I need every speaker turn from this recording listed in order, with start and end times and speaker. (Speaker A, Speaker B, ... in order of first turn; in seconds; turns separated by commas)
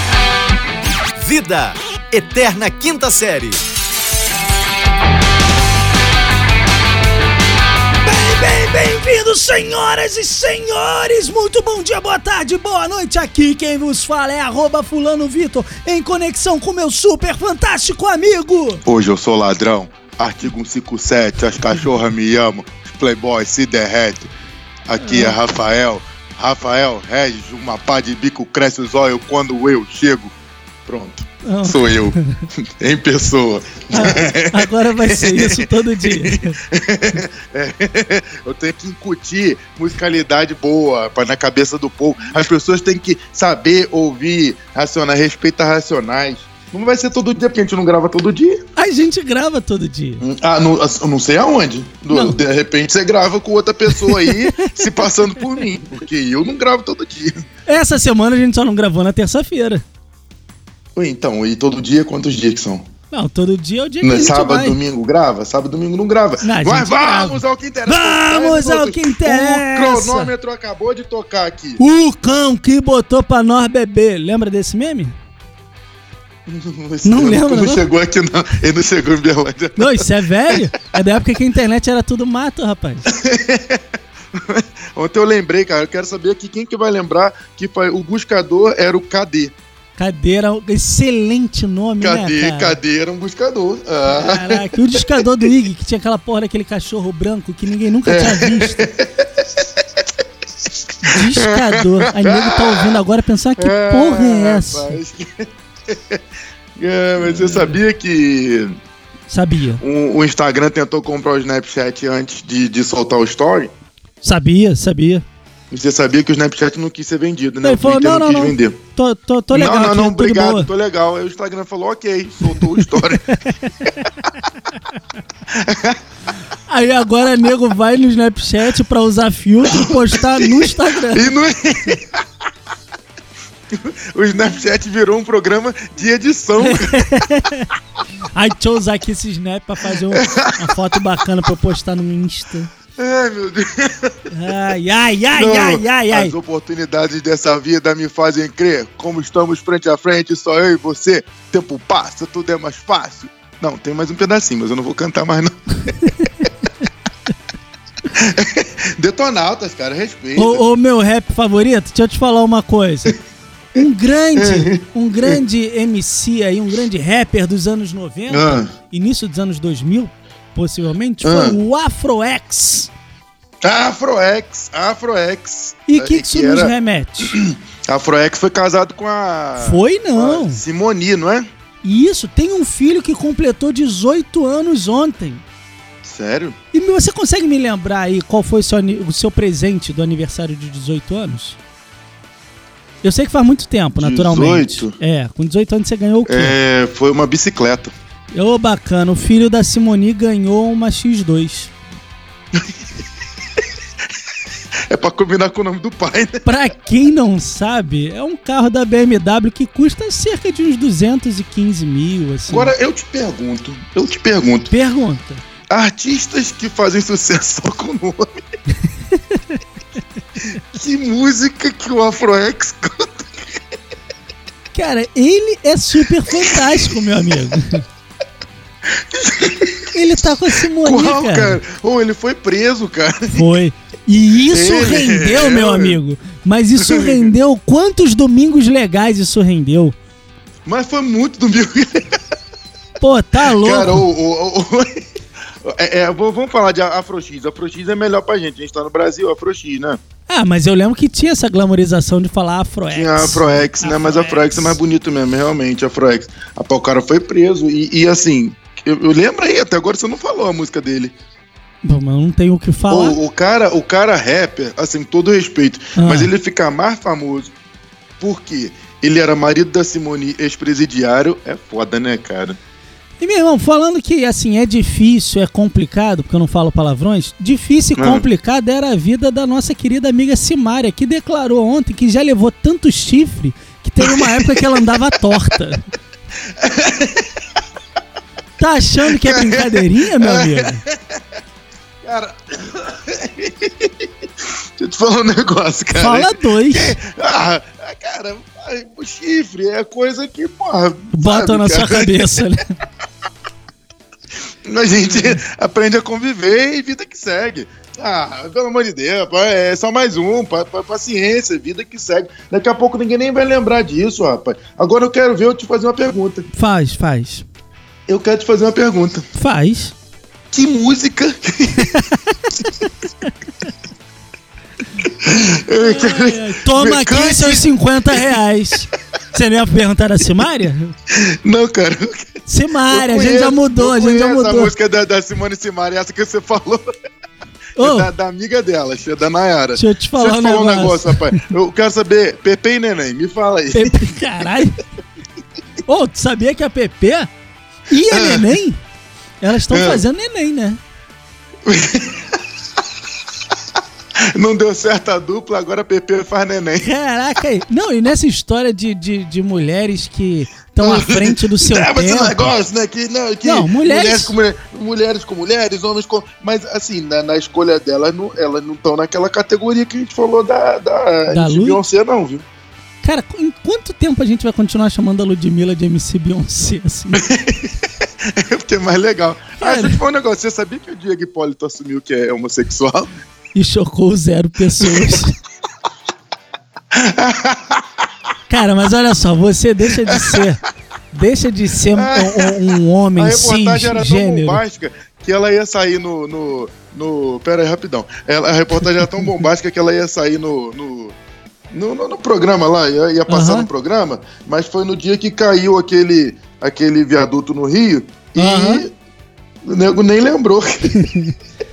Speaker A: 1.2-3.6, Speaker B: 8.0-18.8, Speaker C: 18.9-24.3, Speaker C: 24.9-30.3, Speaker B: 25.0-25.4, Speaker C: 30.9-48.6, Speaker B: 31.5-32.4, Speaker B: 33.9-36.6, Speaker B: 48.8-50.2, Speaker C: 50.2-57.4, Speaker B: 52.1-52.4, Speaker B: 53.9-55.6, Speaker B: 57.7-59.8, Speaker C: 61.0-62.9, Speaker B: 63.1-64.8, Speaker C: 64.0-71.8, Speaker B: 66.4-70.3, Speaker B: 71.8-75.1, Speaker C: 76.5-80.0, Speaker B: 77.0-77.8, Speaker B: 79.8-83.1, Speaker C: 83.1-83.8, Speaker C: 84.3-89.5, Speaker B: 90.0-92.8, Speaker C: 92.0-94.6, Speaker B: 94.1-98.9, Speaker C: 98.1-100.0, Speaker B: 101.0-105.0, Speaker C: 101.0-102.9, Speaker C: 103.6-106.2, Speaker C: 106.8-108.8, Speaker B: 107.2-107.8, Speaker B: 109.3-109.8, Speaker C: 109.8-113.7, Speaker B: 114.2-115.2, Speaker C: 115.7-118.8, Speaker B: 117.6-120.7, Speaker C: 119.5-123.4, Speaker B: 122.6-124.0, Speaker C: 125.5-126.0, Speaker B: 126.7-131.3, Speaker C: 129.8-132.2, Speaker C: 133.7-137.1, Speaker B: 136.6-137.7, Speaker B: 138.3-142.7, Speaker C: 140.1-140.7, Speaker C: 143.0-144.1, Speaker B: 144.3-146.3, Speaker C: 145.3-155.9, Speaker C: 158.1-160.6, Speaker B: 160.4-163.2, Speaker B: 163.8-172.9, Speaker C: 164.4-165.4, Speaker C: 168.3-168.7, Speaker C: 171.2-171.6, Speaker C: 173.6-176.7, Speaker B: 175.9-177.3, Speaker C: 177.2-181.5, Speaker B: 179.6-180.6, Speaker B: 181.8-185.4, Speaker C: 186.0-186.6, Speaker B: 186.7-191.6, Speaker B: 193.0-196.6, Speaker C: 194.0-194.9, Speaker C: 196.3-197.9, Speaker B: 198.3-201.7, Speaker C: 204.9-206.4, Speaker B: 206.4-212.7, Speaker C: 212.5-214.7, Speaker B: 214.7-215.4, Speaker C: 215.7-218.3, Speaker B: 219.1-219.6, Speaker C: 220.5-223.3, Speaker B: 224.7-227.8, Speaker C: 229.0-229.9, Speaker B: 229.9-231.6, Speaker C: 230.8-233.4, Speaker B: 233.3-240.0, Speaker C: 234.5-236.0, Speaker C: 236.8-237.3, Speaker C: 240.7-242.2, Speaker B: 243.0-244.1, Speaker C: 243.5-245.0, Speaker C: 245.6-250.0, Speaker B: 250.3-254.8, Speaker C: 252.9-261.1, Speaker B: 261.8-263.2, Speaker C: 262.9-267.5, Speaker B: 266.0-266.3, Speaker C: 268.2-272.6, Speaker B: 273.2-285.8, Speaker C: 278.0-278.2, Speaker C: 284.0-284.6, Speaker C: 286.6-287.3, Speaker B: 288.6-290.8, Speaker C: 289.1-291.2, Speaker C: 292.0-294.1, Speaker C: 294.8-302.4, Speaker B: 295.9-297.0, Speaker B: 301.1-302.6, Speaker C: 304.6-316.5, Speaker B: 305.1-305.4, Speaker B: 316.5-317.4, Speaker C: 318.1-319.2, Speaker B: 319.4-319.9, Speaker C: 320.5-321.9, Speaker B: 321.8-323.3, Speaker C: 325.0-328.2, Speaker B: 325.8-330.9, Speaker C: 331.2-332.3, Speaker B: 332.5-334.7, Speaker C: 332.9-336.9, Speaker B: 337.8-338.1, Speaker C: 337.8-344.1, Speaker B: 339.8-341.4, Speaker B: 343.7-344.8, Speaker B: 345.9-347.3, Speaker B: 347.9-348.8, Speaker C: 348.1-348.5, Speaker B: 349.4-350.8, Speaker C: 349.7-350.0, Speaker C: 351.7-352.3, Speaker C: 354.3-356.9, Speaker B: 356.8-362.5, Speaker C: 360.8-372.4, Speaker B: 363.4-364.3, Speaker B: 371.3-371.8, Speaker B: 373.0-377.2, Speaker C: 377.2-383.1, Speaker B: 379.6-380.0, Speaker B: 383.6-385.4, Speaker C: 384.8-385.1, Speaker C: 386.9-387.8, Speaker B: 388.5-390.6, Speaker C: 390.0-390.4, Speaker B: 391.1-394.6, Speaker C: 392.0-392.5, Speaker C: 393.2-401.2, Speaker B: 399.1-399.4, Speaker C: 401.7-408.9, Speaker B: 403.3-403.7, Speaker B: 408.4-408.9, Speaker C: 409.7-411.1, Speaker B: 410.9-411.3